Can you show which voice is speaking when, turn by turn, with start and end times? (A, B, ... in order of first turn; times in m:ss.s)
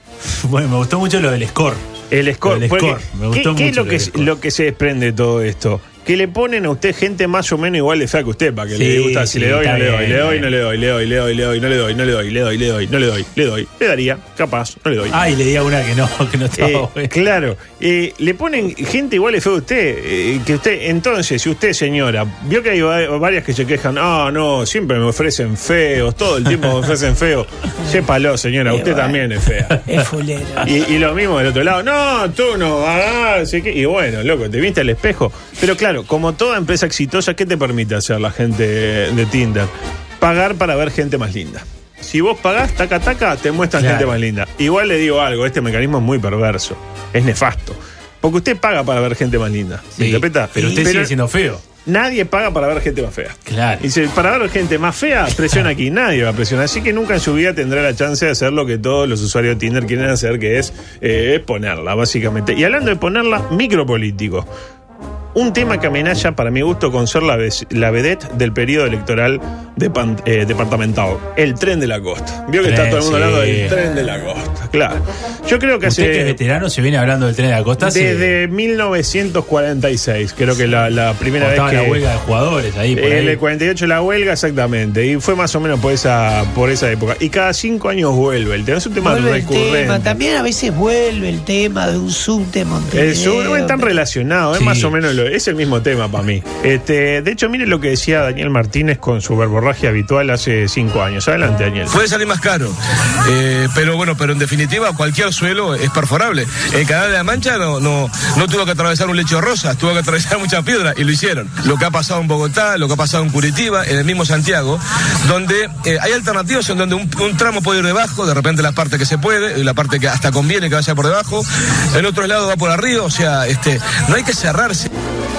0:00.2-0:01.9 A
0:02.1-0:15.3 B
0:02.4-0:04.3 A
0:08.7-0:10.5 A
0:15.1-0:17.1 A
0:16.6-0:29.8 B
0:28.7-0:29.2 C
0:29.8-0:30.7 C
0:30.6-0:39.7 B
0:40.2-0:51.1 B
0:43.8-0:44.2 A
0:50.0-0:51.6 A
0:51.8-1:04.5 B
0:53.4-0:53.8 A
1:05.3-1:16.4 B
1:12.6-1:13.8 A
1:15.8-1:18.3 A
1:17.8-1:22.0 B
1:21.4-1:23.4 A
1:22.9-1:30.2 B
1:29.0-1:33.9 C
1:32.9-1:42.0 B
1:34.5-1:34.9 A
1:41.9-2:04.9 D